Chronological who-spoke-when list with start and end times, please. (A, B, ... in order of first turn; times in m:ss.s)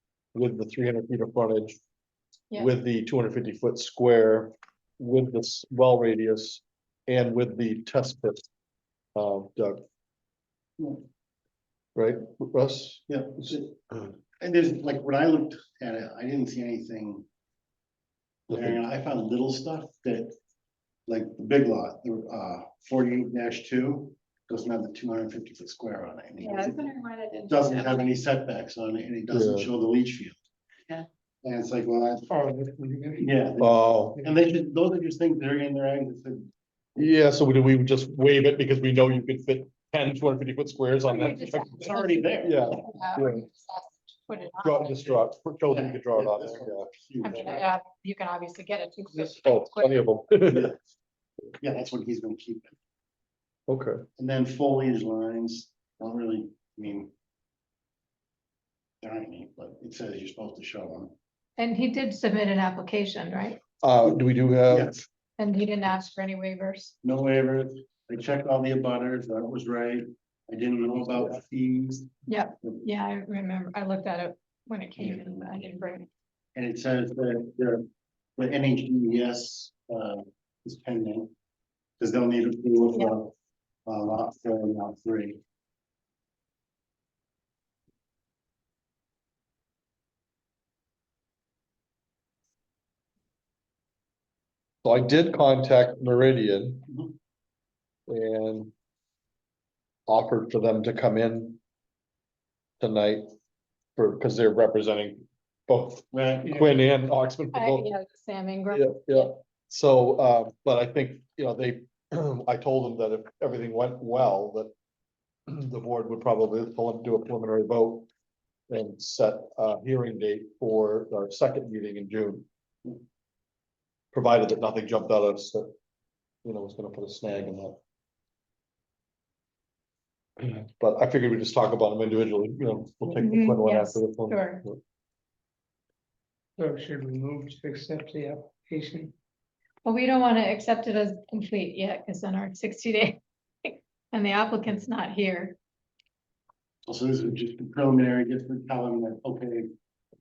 0:00.3-0:01.8 A
0:02.6-0:08.5 A
0:09.2-0:09.8 A
0:12.0-0:13.6 A
0:13.1-0:17.2 B
0:18.5-0:20.3 B
0:18.5-0:18.8 A
0:21.1-0:26.8 B
0:26.4-0:28.2 C
0:27.5-0:30.4 B
0:29.3-0:29.7 A
0:31.4-0:32.3 B
0:32.3-0:33.3 D
0:33.2-0:36.5 B
0:33.6-0:34.2 A
0:37.0-0:43.4 A
0:41.1-0:45.2 C
0:41.7-0:42.7 B
0:44.6-0:46.9 A
0:45.7-0:47.7 B
0:47.2-0:50.0 C
0:49.2-0:50.7 A
0:50.5-0:50.8 B
0:51.6-0:52.7 B
0:53.7-0:54.0 A
0:54.2-0:57.1 B
0:59.0-1:01.1 B
1:01.6-1:03.6 C
1:03.8-1:05.0 A
1:04.7-1:05.0 B
1:05.4-1:06.9 C
1:07.0-1:12.1 B
1:12.3-1:16.1 C
1:15.0-1:15.4 B
1:16.6-1:17.8 B
1:18.4-1:21.3 B
1:22.0-1:23.3 B
1:23.9-1:25.4 B
1:34.8-1:36.9 A
1:36.9-1:37.1 B
1:38.1-1:38.7 A
1:40.1-1:41.6 A
1:42.8-1:43.3 A
1:44.0-1:47.9 A
1:46.1-1:46.7 B
1:47.5-1:49.3 C
1:48.7-1:54.7 A
1:55.5-1:58.1 A
1:58.7-2:02.4 A
2:04.1-2:05.7 A
2:06.4-2:07.8 A
2:10.4-2:14.8 A
2:13.2-2:14.6 C
2:16.6-2:19.1 D
2:19.8-2:25.6 C
2:26.9-2:29.7 B